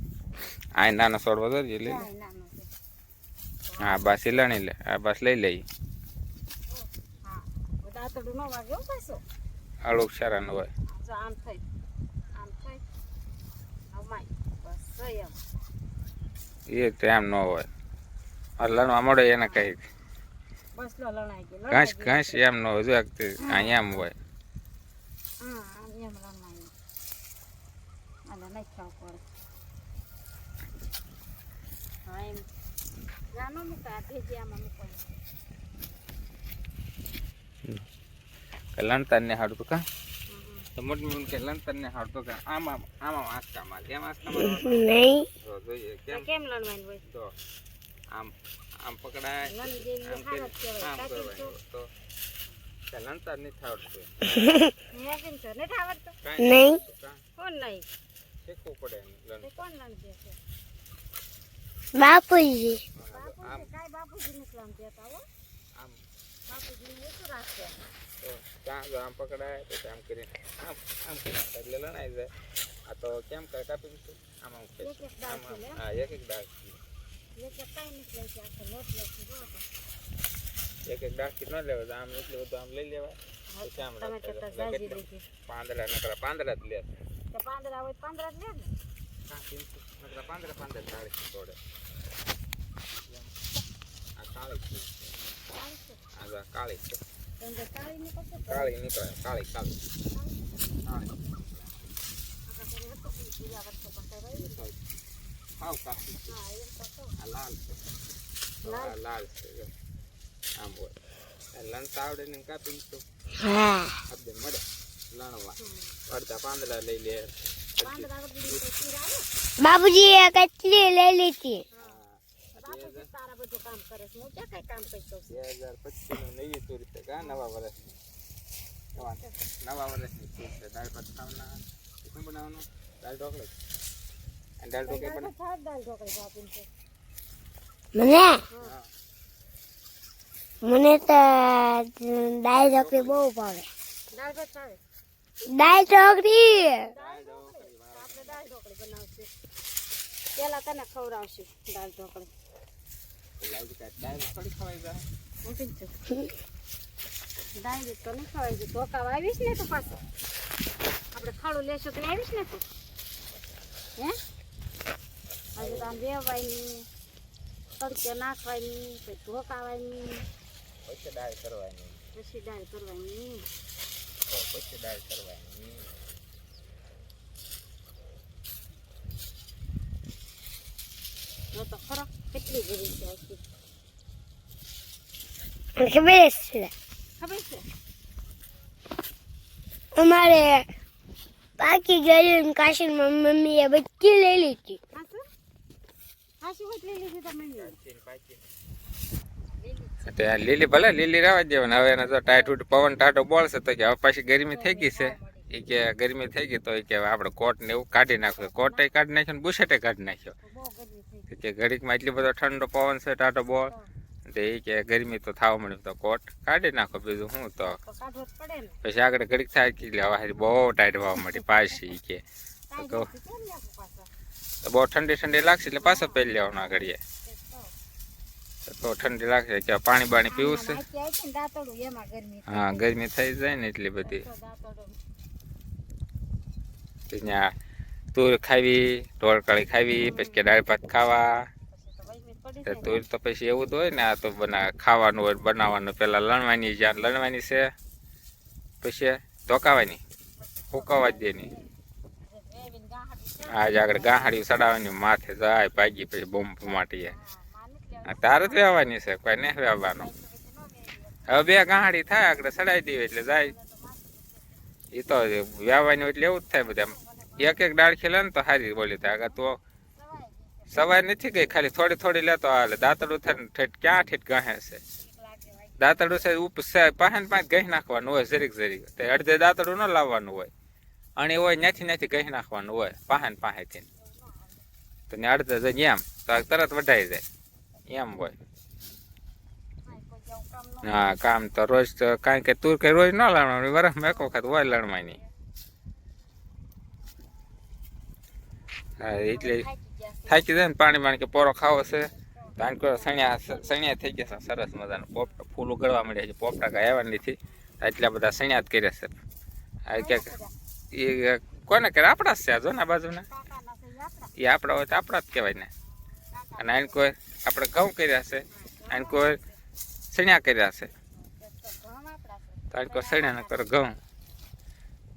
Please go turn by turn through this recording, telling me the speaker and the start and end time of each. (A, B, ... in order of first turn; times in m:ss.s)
0:00.8-0:02.0 A
0:01.8-0:02.7 B
0:03.7-0:04.5 B
0:03.8-0:05.6 A
0:06.7-0:09.2 B
0:09.8-0:10.7 A
0:10.9-0:11.6 B
0:12.3-0:12.8 B
0:13.9-0:15.4 B
0:16.7-0:17.7 A
0:18.6-0:19.8 A
0:19.4-0:19.7 B
0:20.8-0:22.4 B
0:21.7-0:24.1 A
0:23.4-0:24.0 B
0:25.4-0:26.7 B
0:28.3-0:29.2 B
0:32.0-0:32.4 B
0:33.3-0:35.1 B
0:38.7-0:39.8 A
0:40.3-0:40.7 B
0:40.8-0:46.3 A
0:44.4-0:45.3 C
0:46.1-0:47.0 B
0:47.0-0:47.3 A
0:48.1-0:51.9 A
0:49.5-0:51.5 B
0:52.9-0:54.2 A
0:54.4-0:54.7 C
0:54.9-0:56.2 B
0:56.2-0:57.2 A
0:56.4-0:56.8 C
0:57.4-0:57.9 B
0:58.4-0:59.5 A
0:59.4-1:00.4 B
1:01.9-1:02.8 C
1:03.0-1:03.7 A
1:03.1-1:05.2 B
1:05.8-1:06.0 A
1:06.5-1:07.8 B
1:08.2-1:12.3 A
1:12.9-1:16.8 A
1:14.8-1:15.8 B
1:17.4-1:19.7 B
1:20.9-1:27.0 A
1:23.5-1:25.3 B
1:27.3-1:28.7 B
1:29.3-1:31.6 A
1:34.2-1:35.2 A
1:35.5-1:36.1 B
1:36.1-1:37.0 A
1:37.4-1:38.7 B
1:38.5-1:39.8 A
1:40.1-1:41.1 B
1:40.8-1:41.7 A
1:42.5-1:44.6 B
1:44.4-1:44.8 A
1:45.6-1:46.3 A
1:46.3-1:47.2 B
1:47.2-1:47.8 A
1:48.6-1:49.7 A
1:48.6-1:49.0 B
1:50.6-1:50.9 A
1:51.5-1:53.0 A
1:53.4-1:53.9 C
1:54.0-1:58.6 A
1:55.6-1:56.0 B
1:57.8-1:59.3 B
1:59.6-2:01.6 C
2:01.7-2:02.0 B
2:01.8-2:03.1 A
2:02.6-2:05.3 B
2:05.3-2:08.0 A
2:07.2-2:07.5 B
2:09.0-2:09.3 B
2:09.0-2:13.5 A
2:14.6-2:15.3 A
2:14.8-2:16.7 B
2:17.9-2:18.4 C
2:18.6-2:18.9 A
2:20.6-2:23.7 C
2:22.6-2:23.2 A
2:24.1-2:24.8 B
2:25.5-2:26.9 C
2:26.8-2:29.3 B
2:27.0-2:28.5 A
2:30.4-2:32.3 B
2:33.4-2:35.0 A
2:35.4-2:35.9 B
2:37.6-2:39.9 B
2:41.1-2:42.6 B
2:45.6-2:46.0 A
2:45.6-2:46.9 B
2:47.8-2:50.2 B
2:50.8-2:52.0 A
2:52.1-2:53.5 B
2:54.3-2:55.9 A
3:01.5-3:03.4 B
3:05.8-3:06.7 C
3:07.2-3:07.6 B
3:10.0-3:10.7 C
3:11.6-3:14.8 C
3:14.9-3:15.2 B
3:16.4-3:17.7 B
3:17.6-3:18.4 A
3:19.5-3:20.1 B
3:20.0-3:30.3 A
3:22.2-3:22.5 B
3:24.4-3:25.5 B
3:28.4-3:28.9 B
3:30.4-3:31.3 B
3:31.3-3:33.7 A
3:34.3-3:37.8 A
3:37.8-3:38.8 B
3:38.8-3:42.2 A
3:41.2-3:41.5 B
3:42.7-3:44.1 B
3:42.8-3:43.1 A
3:44.6-3:47.0 A
3:45.7-3:47.7 B
3:48.6-3:50.8 A
3:50.3-3:52.9 B
3:52.5-3:54.2 A
3:54.0-3:55.0 B
3:57.1-3:57.5 A
3:58.1-4:01.5 A
4:00.0-4:00.5 B
4:01.7-4:03.0 B
4:02.6-4:07.7 A
4:08.8-4:10.0 A
4:10.4-4:11.7 B
4:10.7-4:11.5 A
4:12.2-4:14.5 B
4:13.5-4:17.1 A
4:16.6-4:18.9 B
4:18.0-4:20.1 A
4:19.8-4:21.6 B
4:21.3-4:23.5 A
4:23.2-4:24.7 B
4:24.9-4:29.6 A
4:26.6-4:27.7 B
4:30.0-4:31.2 B
4:30.7-4:34.8 A
4:35.0-4:36.3 B
4:35.8-4:40.5 A
4:41.2-4:43.8 A
4:44.0-4:44.6 B
4:45.1-4:47.2 A
4:47.9-4:48.4 A
4:49.8-4:51.2 B
4:50.8-4:55.2 A
4:54.0-4:55.3 B
4:59.0-4:59.6 A
4:59.1-5:00.6 B
5:00.3-5:09.1 A
5:02.1-5:04.1 B
5:05.1-5:05.4 B
5:09.9-5:10.3 A
5:09.9-5:10.5 B
5:10.9-5:13.3 A
5:13.3-5:14.3 B
5:14.4-5:15.7 A
5:16.1-5:17.0 B
5:16.6-5:19.4 A
5:18.5-5:19.5 B
5:20.1-5:20.9 A
5:21.2-5:23.7 B
5:22.7-5:24.0 A